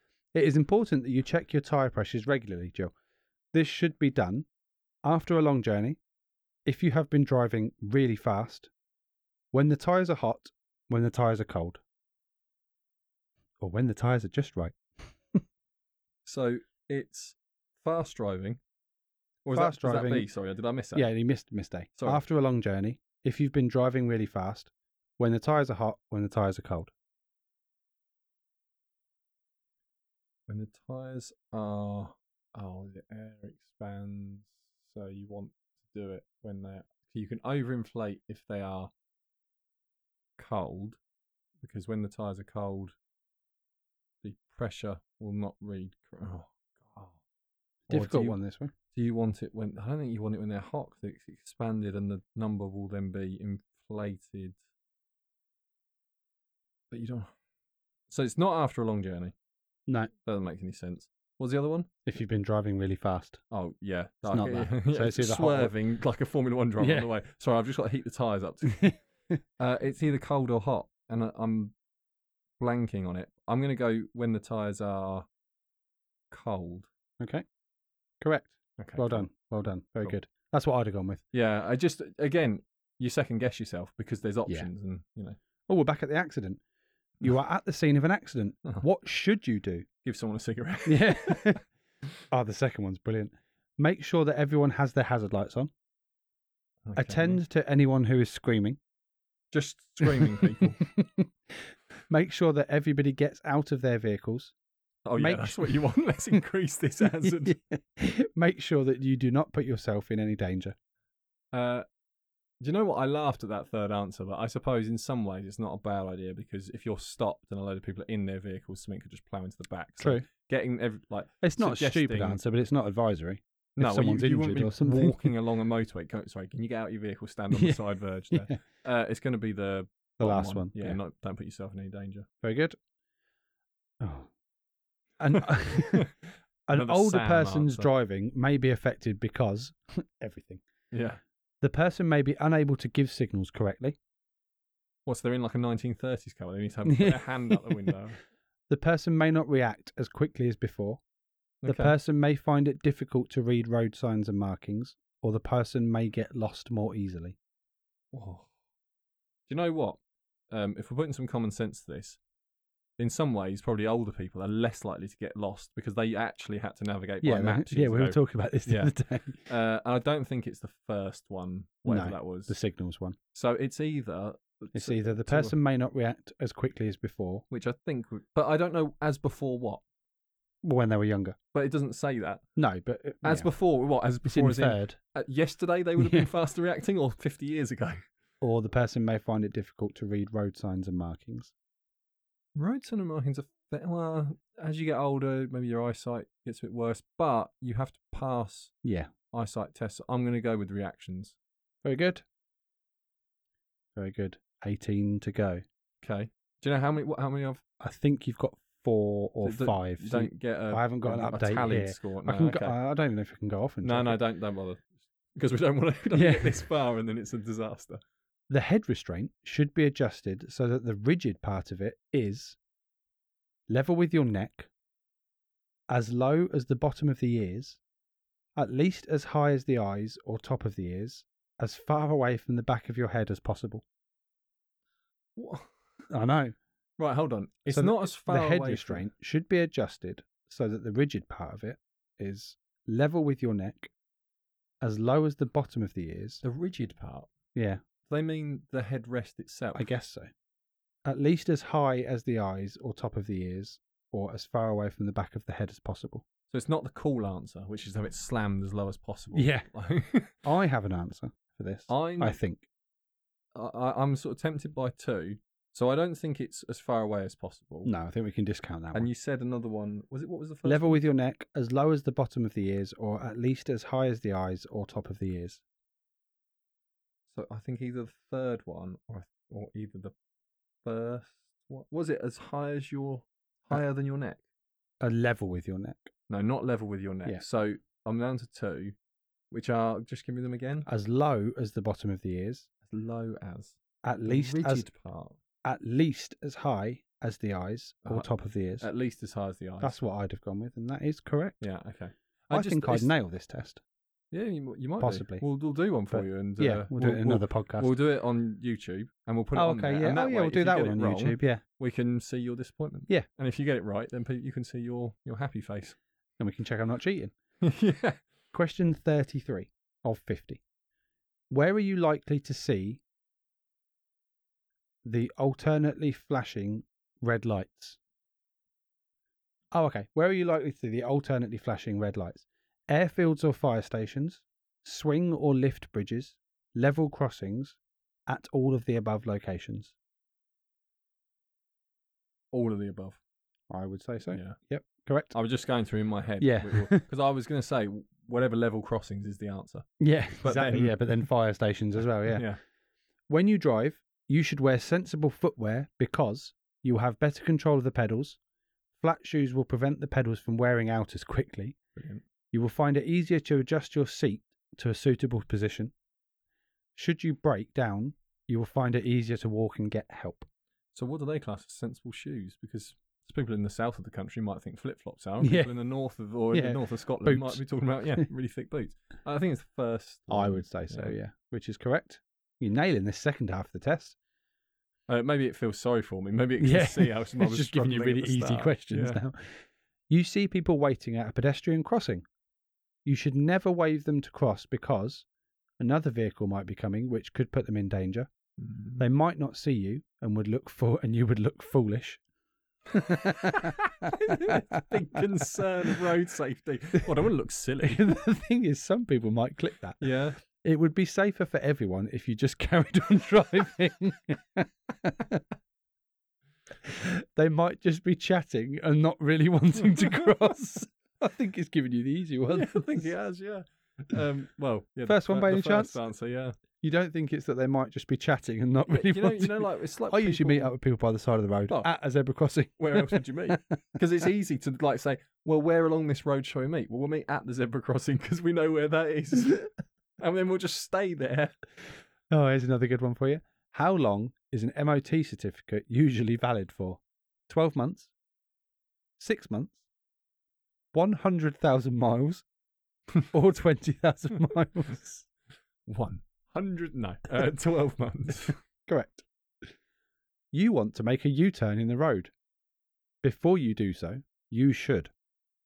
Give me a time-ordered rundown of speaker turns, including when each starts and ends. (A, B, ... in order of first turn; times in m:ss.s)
0:00.3-0:02.9 A
0:03.5-0:04.5 A
0:05.0-0:06.0 A
0:06.7-0:08.7 A
0:09.5-0:11.8 A
0:13.6-0:15.4 A
0:16.3-0:18.6 B
0:19.4-0:21.1 B
0:19.5-0:20.3 A
0:21.0-0:26.9 A
0:22.0-0:22.2 B
0:30.5-0:38.9 B
0:40.4-0:41.0 B
0:41.6-0:42.9 B
0:44.2-0:47.2 B
0:47.9-0:48.4 B
0:47.9-0:48.7 A
0:48.9-0:54.6 B
0:56.9-0:57.3 B
0:58.1-0:59.3 B
1:00.2-1:01.9 B
1:02.1-1:03.4 A
1:03.5-1:08.9 B
1:04.3-1:05.7 A
1:06.8-1:07.1 A
1:09.6-1:11.7 B
1:12.6-1:15.3 B
1:16.3-1:16.9 B
1:18.2-1:21.2 A
1:18.8-1:19.3 B
1:21.3-1:25.4 B
1:25.7-1:26.6 A
1:27.2-1:29.9 A
1:30.0-1:31.6 B
1:30.9-1:31.6 A
1:32.3-1:35.7 A
1:36.9-1:37.4 B
1:37.0-1:38.8 A
1:39.5-1:40.8 B
1:40.0-1:44.5 A
1:45.1-1:47.6 B
1:45.2-1:45.8 A
1:47.2-1:50.8 A
1:51.5-1:51.8 B
1:52.6-2:02.4 B
2:00.0-2:00.2 A
2:01.4-2:05.3 A
2:03.8-2:12.3 B
2:07.5-2:08.6 A
2:10.2-2:11.0 A
2:12.4-2:12.8 A
2:14.0-2:14.3 A
2:15.2-2:16.1 A
2:15.3-2:16.2 B
2:16.7-2:20.6 A
2:16.7-2:17.9 B
2:20.9-2:21.2 B
2:21.6-2:24.0 A
2:25.1-2:28.2 B
2:26.9-2:27.9 A
2:28.7-2:31.0 A
2:31.6-2:31.9 B
2:31.7-2:37.4 A
2:38.1-2:38.5 B
2:39.5-2:40.0 B
2:40.5-2:42.2 B
2:43.0-2:48.9 B
2:47.2-2:49.4 A
2:49.5-2:52.5 B
2:51.9-2:53.2 A
2:53.3-2:55.6 B
2:54.8-2:57.4 A
2:57.5-2:59.8 B
3:00.6-3:01.4 A
3:01.5-3:02.4 B
3:02.6-3:03.5 A
3:03.2-3:08.0 B
3:04.3-3:05.0 A
3:06.0-3:06.3 A
3:08.4-3:11.5 A
3:12.6-3:18.7 B
3:18.8-3:19.1 A
3:19.3-3:21.4 B
3:21.8-3:22.2 A
3:24.0-3:25.6 A
3:26.0-3:27.6 B
3:27.8-3:34.2 A
3:29.4-3:32.8 B
3:33.8-3:34.8 B
3:35.4-3:38.0 B
3:36.1-3:36.6 A
3:38.5-3:42.6 A
3:43.7-3:44.7 A
3:45.9-3:47.8 A
3:48.6-3:53.8 A
3:55.4-3:55.7 B
3:56.1-3:56.6 A
3:57.0-3:59.1 B
3:57.7-4:03.9 A
4:04.8-4:06.4 A
4:06.4-4:07.3 B
4:07.6-4:07.8 A
4:08.1-4:09.9 B
4:09.8-4:10.3 A
4:11.1-4:16.2 A
4:16.5-4:20.4 B
4:19.3-4:19.7 A
4:20.4-4:22.7 A
4:21.9-4:22.4 B
4:23.6-4:27.9 B
4:27.8-4:29.1 A
4:28.9-4:31.1 B
4:30.6-4:35.6 A
4:37.3-4:40.1 B
4:40.8-4:44.4 B
4:45.0-4:46.1 A
4:46.3-4:49.0 B
4:49.5-4:50.9 B
4:50.9-4:52.7 A
4:52.9-4:55.4 B
4:54.0-4:54.9 A
4:55.6-4:58.9 A
4:58.0-5:00.0 B
4:59.8-5:01.6 A
5:01.6-5:03.1 B
5:02.5-5:03.8 A
5:04.3-5:16.0 B
5:05.0-5:05.4 A
5:06.1-5:07.9 A
5:09.6-5:11.6 A
5:16.4-5:17.3 A
5:17.6-5:18.2 B
5:18.5-5:20.6 A
5:21.5-5:23.0 A
5:25.0-5:28.0 A
5:29.7-5:40.0 A
5:42.5-5:43.2 B
5:43.7-5:45.3 A
5:44.3-5:44.6 B
5:45.3-5:49.9 B
5:46.4-5:47.0 A
5:50.0-5:52.4 A
5:50.4-5:51.2 B
5:52.3-5:52.6 B
5:53.3-5:58.4 A
5:59.0-6:01.8 A
6:02.0-6:02.2 B
6:02.5-6:05.9 A
6:07.0-6:10.5 A
6:10.9-6:21.2 B
6:15.4-6:15.7 A
6:16.5-6:17.6 A
6:20.3-6:24.2 A
6:25.1-6:29.2 B
6:26.6-6:32.2 A
6:33.0-6:35.2 A
6:35.8-6:38.3 A
6:38.6-6:39.0 B
6:39.0-6:42.2 A
6:42.9-6:45.2 A
6:43.1-6:48.1 B
6:47.8-6:55.4 A
6:50.0-6:50.4 B
6:56.8-7:03.1 A
7:02.5-7:06.6 B
7:05.1-7:06.0 A
7:06.8-7:13.6 A
7:08.9-7:10.7 B
7:12.8-7:21.6 B
7:22.3-7:28.1 A
7:29.2-7:29.8 A
7:30.9-7:32.4 A
7:33.3-7:35.3 A
7:35.9-7:38.6 B
7:38.9-7:39.2 A
7:40.5-7:42.3 A
7:43.2-7:45.1 A